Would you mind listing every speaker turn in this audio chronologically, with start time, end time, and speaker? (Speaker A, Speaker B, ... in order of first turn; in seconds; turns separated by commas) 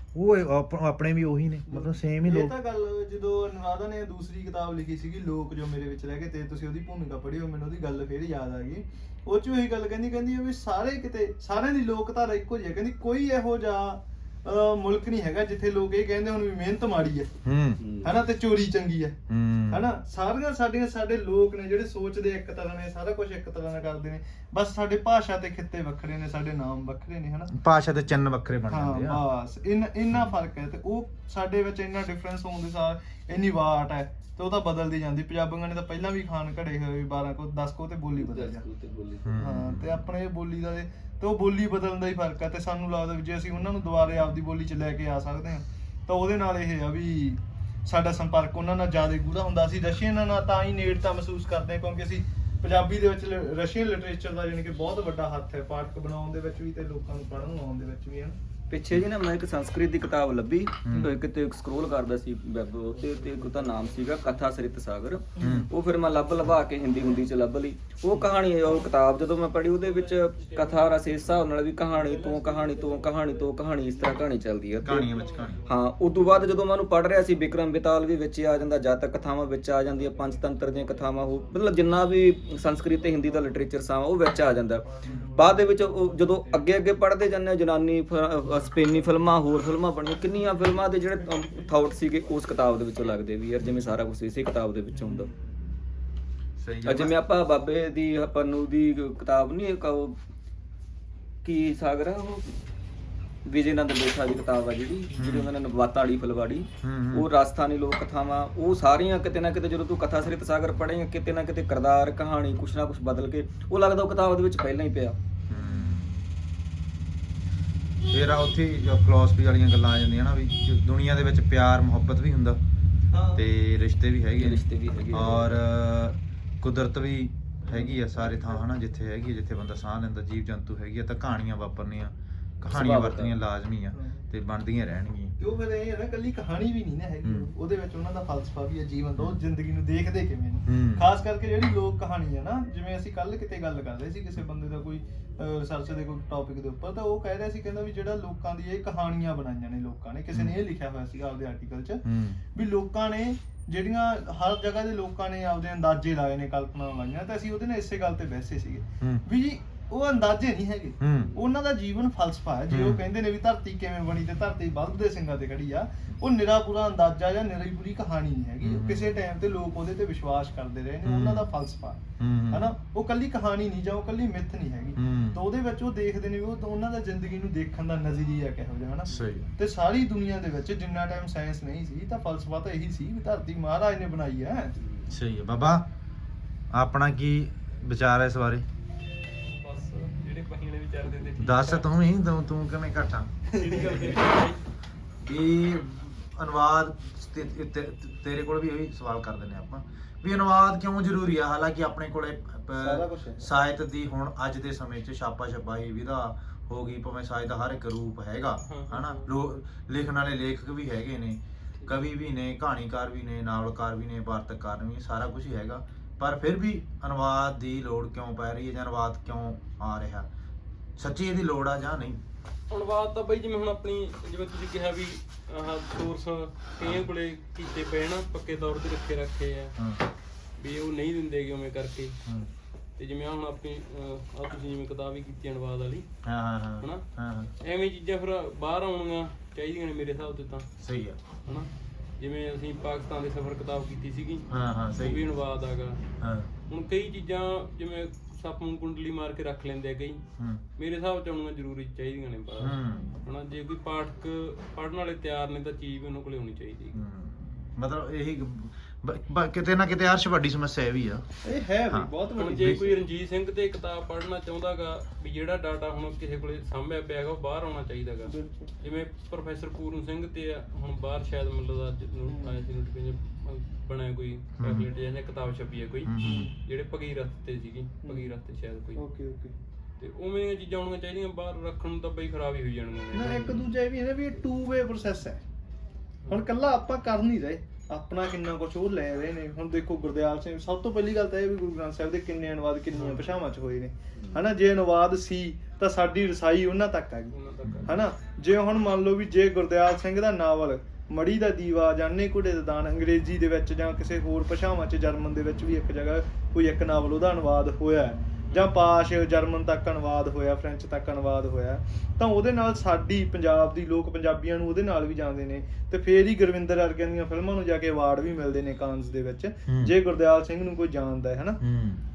Speaker A: 0.1-2.5, Speaker B: 1.7-17.3, Speaker A: 17.4-17.8, Speaker C: 17.8-18.2, Speaker B: 18.0-19.2, Speaker A: 19.3-19.9, Speaker B: 19.7-27.5, Speaker A: 27.6-29.2, Speaker B: 28.7-38.6, Speaker C: 38.1-39.3, Speaker A: 39.2-40.1, Speaker B: 39.4-58.4, Speaker C: 58.7-75.1, Speaker A: 60.9-61.1, Speaker B: 65.4-65.7, Speaker A: 65.4-65.7, Speaker D: 69.5-73.5, Speaker A: 74.8-75.6, Speaker D: 75.1-76.6, Speaker C: 75.7-95.3, Speaker B: 84.9-86.9, Speaker B: 94.9-95.7, Speaker A: 96.6-97.1, Speaker C: 96.8-100.2, Speaker C: 101.4-102.5, Speaker C: 103.5-115.2, Speaker A: 105.1-105.5, Speaker A: 106.8-107.3, Speaker A: 115.5-116.2, Speaker B: 115.5-116.0, Speaker A: 118.1-122.6, Speaker B: 123.1-123.4, Speaker A: 123.3-135.4, Speaker C: 124.4-125.5, Speaker B: 127.7-128.6, Speaker C: 132.7-133.4, Speaker B: 133.9-134.2, Speaker B: 135.4-152.0, Speaker A: 137.2-137.5, Speaker A: 140.7-141.1, Speaker A: 152.1-152.4, Speaker B: 152.5-184.7, Speaker A: 161.0-161.4, Speaker A: 162.7-163.0, Speaker A: 168.6-169.2, Speaker A: 171.0-171.5, Speaker A: 172.2-172.7, Speaker A: 175.0-175.4, Speaker A: 179.1-179.5, Speaker A: 185.1-185.9, Speaker A: 186.7-188.7, Speaker D: 189.4-191.9, Speaker A: 191.4-193.3, Speaker B: 193.5-194.1, Speaker D: 193.6-194.6, Speaker A: 195.2-220.3, Speaker B: 202.8-203.5, Speaker D: 208.6-209.3, Speaker A: 221.0-222.2, Speaker D: 222.7-229.8, Speaker D: 230.6-232.2, Speaker D: 233.0-236.1, Speaker A: 236.2-237.5, Speaker D: 237.6-240.7, Speaker A: 240.8-241.2, Speaker D: 241.5-246.0, Speaker A: 244.5-245.3, Speaker A: 246.2-246.5, Speaker D: 246.7-250.2, Speaker D: 250.8-257.0, Speaker A: 252.6-253.2, Speaker A: 256.9-261.2, Speaker B: 261.4-263.0, Speaker A: 261.9-262.9, Speaker D: 262.4-279.0, Speaker B: 268.3-268.7, Speaker B: 272.2-272.6, Speaker A: 274.6-274.9, Speaker A: 276.1-276.5, Speaker B: 276.2-276.6, Speaker B: 278.1-278.4, Speaker B: 278.9-279.6, Speaker D: 280.0-283.5, Speaker B: 283.1-285.4, Speaker A: 283.2-283.6, Speaker B: 286.3-321.6, Speaker D: 297.3-297.9, Speaker A: 297.6-297.9, Speaker A: 321.6-322.0